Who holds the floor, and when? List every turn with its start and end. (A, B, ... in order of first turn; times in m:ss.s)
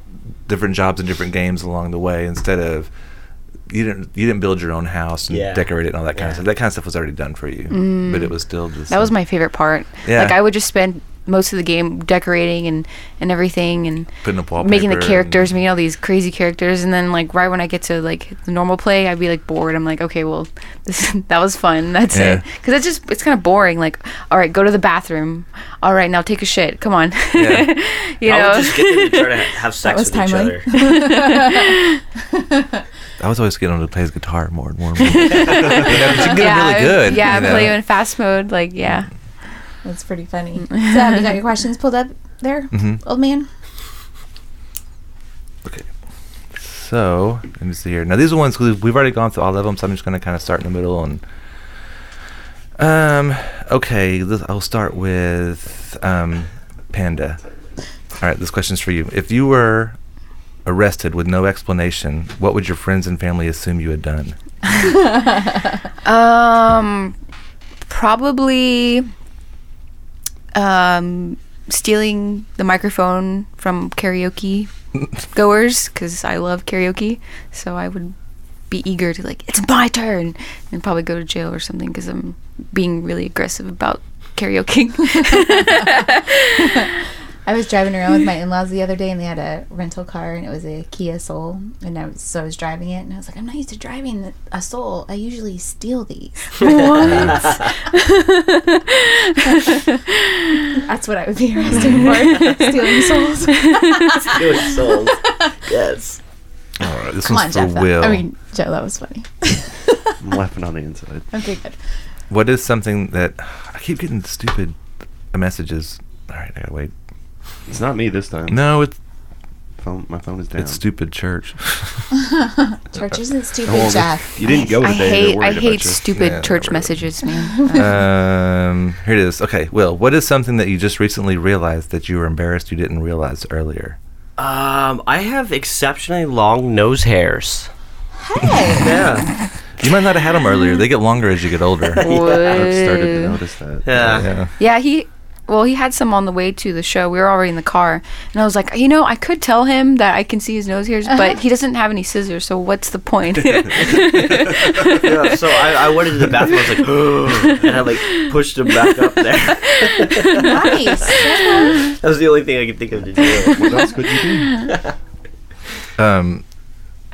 0:00.5-0:02.9 A
0:03.7-0:09.1 A
0:05.3-0:06.4 B
0:07.7-0:29.3 C
0:10.0-0:10.4 A
0:14.2-0:15.5 A
0:22.1-0:22.4 A
0:27.4-0:27.7 A
0:28.2-0:30.7 B
0:29.8-0:32.8 D
0:30.7-0:32.0 C
0:33.2-0:37.8 A
0:35.0-0:39.1 C
0:35.5-0:36.0 E
0:39.8-0:43.5 D
0:40.6-0:41.4 C
0:42.7-0:43.0 A
0:46.5-0:51.2 A
0:52.8-0:57.4 A
0:58.2-1:00.0 A
1:00.6-1:04.4 A
1:04.8-1:05.5 D
1:06.0-1:07.1 C
1:07.9-1:09.1 C
1:10.5-1:18.2 C
1:18.7-1:26.9 C
1:25.5-1:26.9 D
1:27.4-1:37.5 D
1:36.6-1:40.8 C
1:36.6-1:37.0 B
1:37.0-1:37.4 A
1:40.7-1:45.5 D
1:41.7-1:42.1 A
1:42.0-1:44.4 C
1:44.2-1:46.2 B
1:46.8-1:48.2 A
1:47.2-1:50.2 D
1:50.2-1:51.3 E
1:51.3-1:51.8 D
1:52.3-1:54.8 A
1:55.3-1:56.9 A
1:57.7-1:58.6 E
1:58.5-1:59.0 A
1:59.8-2:00.8 E
2:00.6-2:02.1 A
2:02.1-2:05.2 D
2:03.6-2:06.0 E
2:04.8-2:07.9 C
2:06.2-2:07.0 A
2:07.7-2:14.0 A
2:14.4-2:17.7 B
2:18.2-2:19.0 D
2:18.4-2:18.8 A
2:18.8-2:19.3 B
2:19.8-2:22.0 A
2:21.9-2:22.6 B
2:22.0-2:23.4 C
2:22.2-2:24.2 E
2:23.8-2:24.3 B
2:24.1-2:24.5 A
2:24.6-2:35.5 C
2:34.9-2:43.9 B
2:39.7-2:40.9 C
2:40.4-2:41.9 D
2:43.5-2:44.7 E
2:44.6-2:44.9 B
2:46.0-2:46.4 A